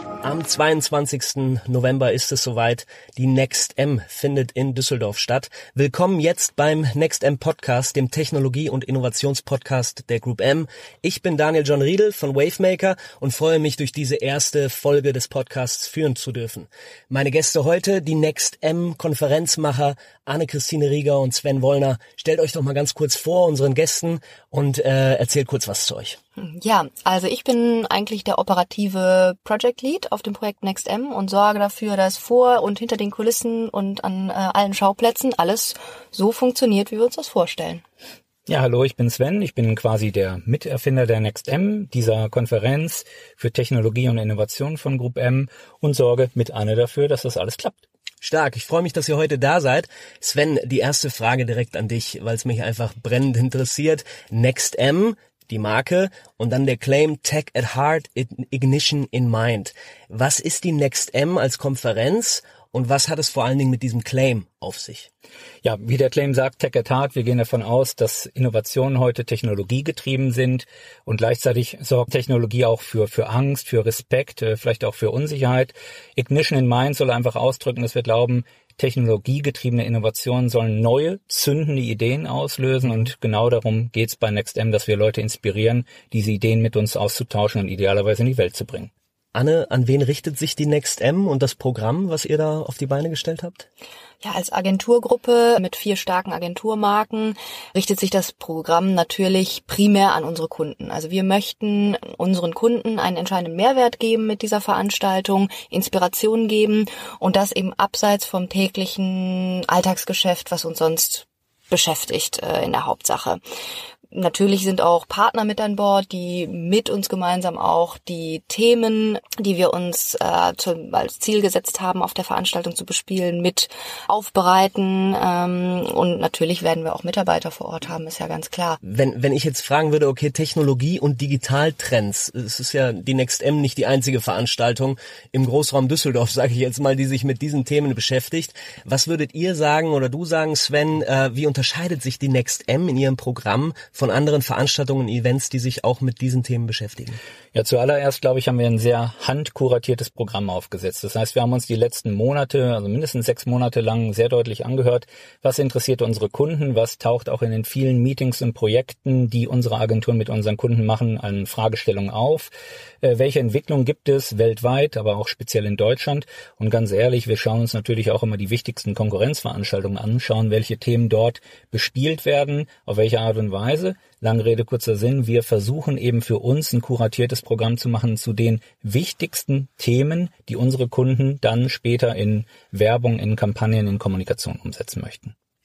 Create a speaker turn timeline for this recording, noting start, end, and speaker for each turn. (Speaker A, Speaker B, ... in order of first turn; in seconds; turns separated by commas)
Speaker A: 0.2-26.2, Speaker B: 26.4-37.8, Speaker C: 38.5-47.8, Speaker A: 48.2-65.1, Speaker C: 65.6-88.9, Speaker A: 89.3-93.6, Speaker B: 94.2-113.4, Speaker B: 114.1-128.8, Speaker A: 128.8-147.2, Speaker C: 147.5-185.3